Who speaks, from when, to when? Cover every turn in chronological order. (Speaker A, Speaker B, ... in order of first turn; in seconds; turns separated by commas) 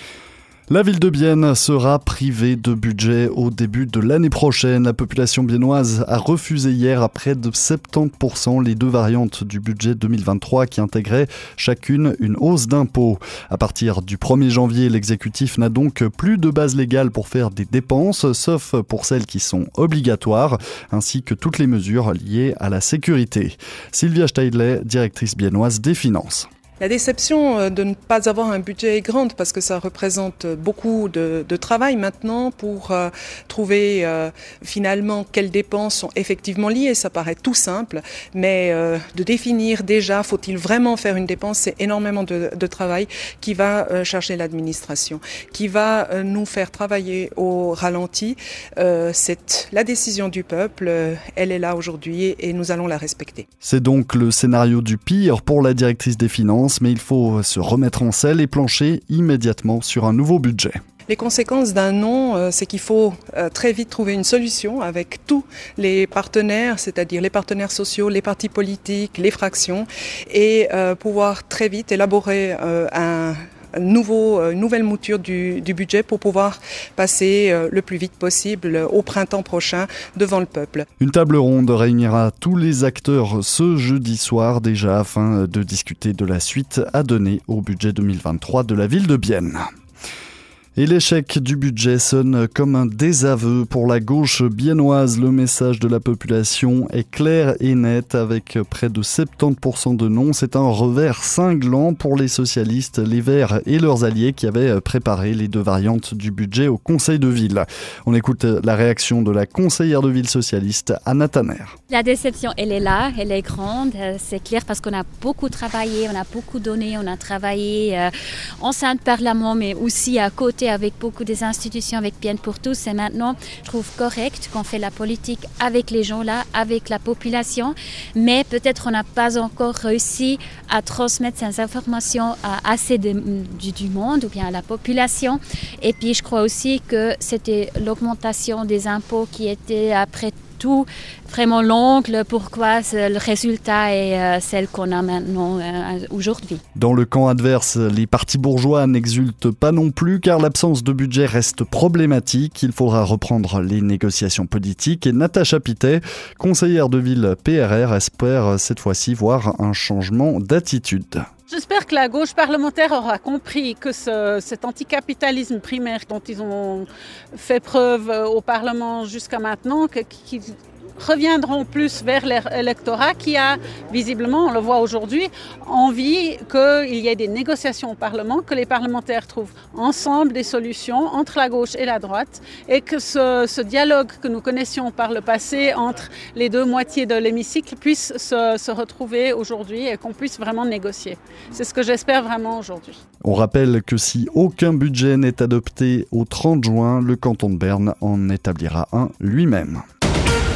Speaker A: 0.7-26.5, Speaker B: 26.8-53.5, Speaker A: 53.6-60.8, Speaker B: 61.1-80.8, Speaker A: 81.0-89.6, Speaker A: 90.8-111.8, Speaker C: 111.9-146.6, Speaker A: 146.8-161.2, Speaker D: 161.5-193.0, Speaker A: 193.2-199.8